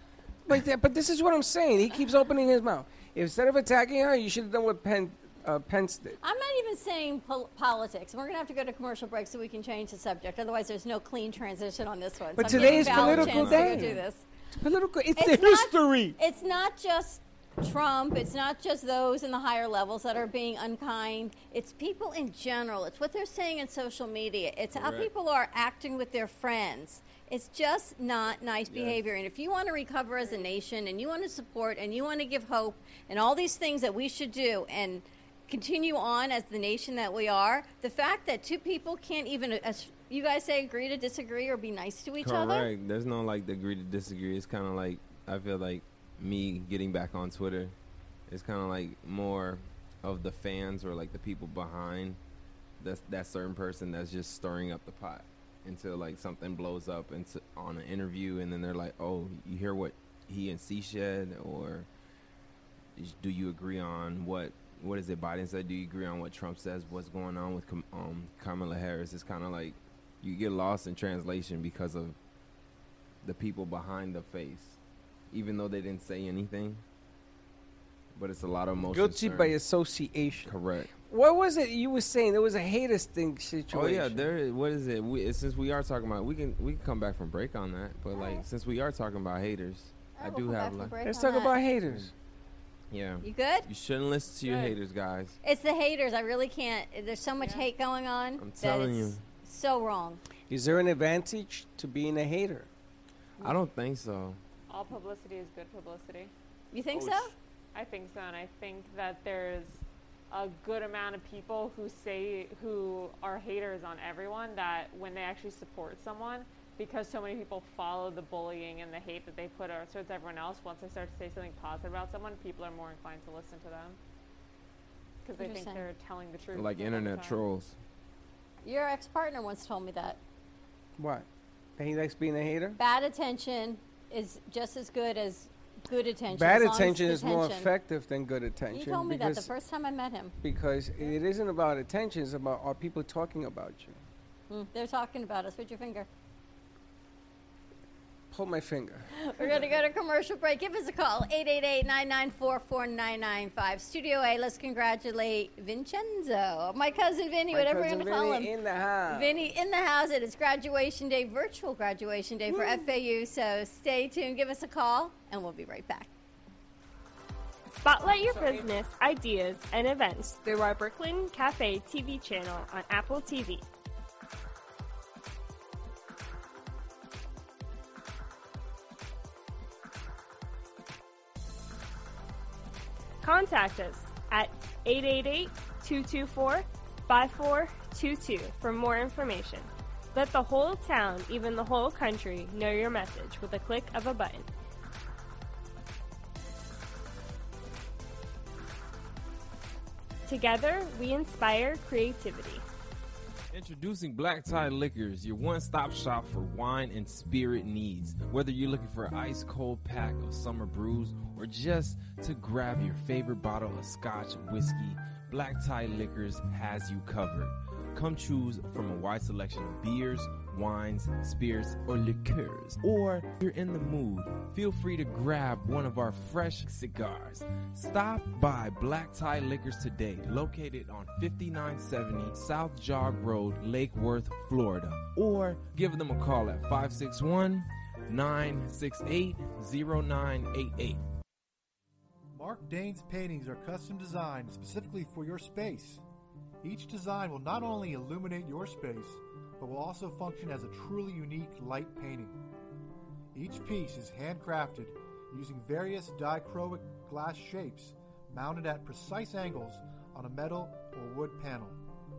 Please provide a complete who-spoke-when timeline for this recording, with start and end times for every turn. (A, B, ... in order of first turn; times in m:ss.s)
0:00.4-0:06.2 A
0:06.2-0:14.2 B
0:12.4-0:14.0 A
0:12.5-0:14.0 C
0:14.5-0:16.2 A
0:15.2-0:42.7 B
0:24.7-0:25.1 C
0:28.7-0:29.0 C
0:42.2-0:47.7 C
0:48.3-0:52.2 C
0:52.8-1:01.9 C
1:03.0-1:12.2 C
1:13.2-1:14.8 C
1:15.3-1:16.8 C
1:18.1-1:19.6 C
1:18.8-1:24.3 A
1:20.4-1:20.9 C
1:23.7-1:30.9 C
1:28.1-1:28.4 B
1:30.2-1:31.6 B
1:31.0-1:32.1 A
1:32.9-1:35.4 C
1:33.2-1:33.7 B
1:34.4-1:34.8 D
1:35.4-1:40.2 B
1:37.4-1:37.7 D
1:38.4-1:39.2 C
1:40.5-1:42.7 A
1:43.4-1:44.4 C
1:44.7-1:46.3 D
1:46.7-1:47.3 B
1:46.9-1:47.3 C
1:47.7-2:04.0 D
2:05.2-2:07.4 D
2:05.4-2:05.8 B
2:06.5-2:07.8 C
2:08.6-2:10.2 B
2:11.0-2:11.2 A
2:11.8-2:12.8 A
2:12.8-2:17.7 B
2:16.3-2:19.5 A
2:18.7-2:20.3 B
2:20.4-2:24.0 A
2:24.5-2:26.1 B
2:28.3-2:29.1 A
2:29.1-2:38.5 B
2:37.5-2:39.4 A
2:39.1-2:46.1 B
2:42.5-2:42.8 A
2:47.8-2:53.6 E
2:48.1-2:48.7 A
3:03.2-3:14.5 E
3:20.2-3:22.6 E
3:23.5-4:01.0 C
4:02.3-4:06.0 F
4:06.6-4:12.5 F
4:13.3-4:21.8 F